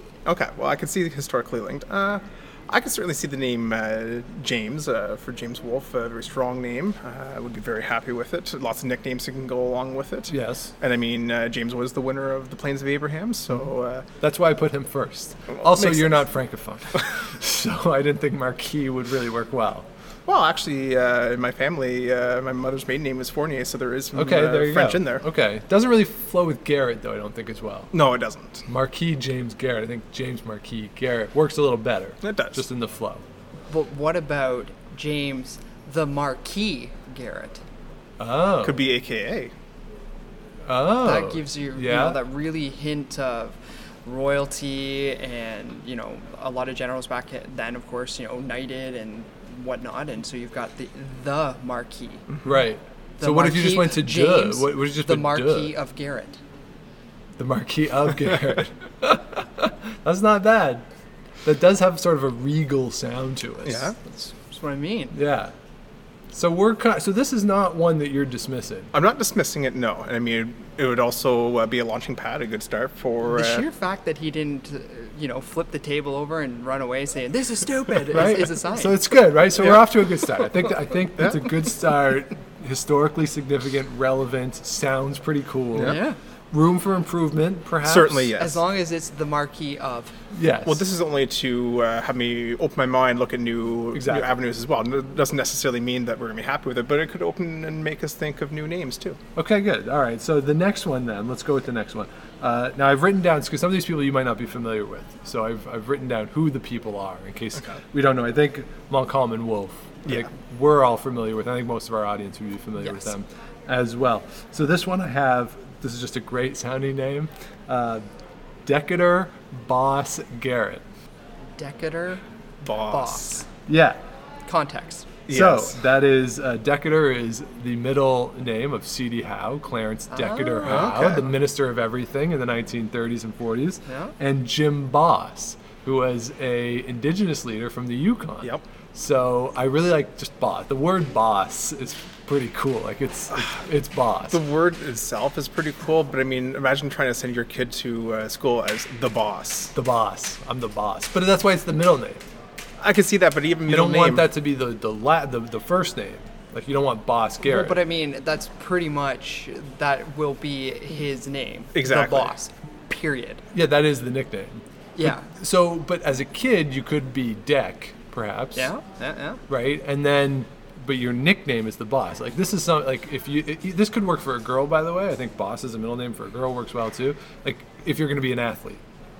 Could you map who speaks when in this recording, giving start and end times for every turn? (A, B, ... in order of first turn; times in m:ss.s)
0:00.2-0:14.1 A
0:10.3-0:10.7 B
0:14.2-0:19.9 B
0:15.5-0:16.2 A
0:20.3-0:25.2 A
0:24.1-0:27.9 B
0:27.9-0:28.6 A
0:28.7-0:33.2 B
0:32.2-0:32.6 A
0:33.7-0:37.6 C
0:38.2-0:38.8 B
0:38.6-0:39.5 A
0:40.6-0:42.2 B
0:41.0-0:52.3 C
0:52.4-0:55.8 B
0:53.2-0:56.4 C
0:57.4-1:00.8 B
1:01.4-1:03.9 B
1:03.6-1:04.0 A
1:04.0-1:05.2 C
1:05.1-1:05.5 B
1:06.3-1:08.9 B
1:08.9-1:13.6 A
1:13.2-1:19.0 C
1:18.1-1:26.0 B
1:25.8-1:26.2 C
1:26.5-1:28.3 B
1:27.8-1:28.6 A
1:28.4-1:30.1 C
1:30.3-1:30.8 B
1:30.6-1:39.2 A
1:33.9-1:34.3 B
1:39.4-1:58.0 B
1:52.8-1:53.1 C
1:58.6-2:00.8 B
2:01.6-2:02.2 C
2:02.6-2:03.4 A
2:02.9-2:03.4 C
2:03.7-2:04.0 B
2:04.4-2:05.1 C
2:05.3-2:05.7 A
2:05.3-2:24.4 B
2:10.1-2:10.9 C
2:10.6-2:11.3 A
2:13.9-2:14.1 C
2:24.3-2:29.7 A
2:29.7-2:32.2 B
2:32.8-2:34.3 A
2:33.7-2:37.8 B
2:37.4-2:43.4 C
2:41.7-2:42.3 A
2:43.5-2:48.7 B
2:45.0-2:45.2 C
2:48.5-2:49.4 C
2:49.5-2:58.8 B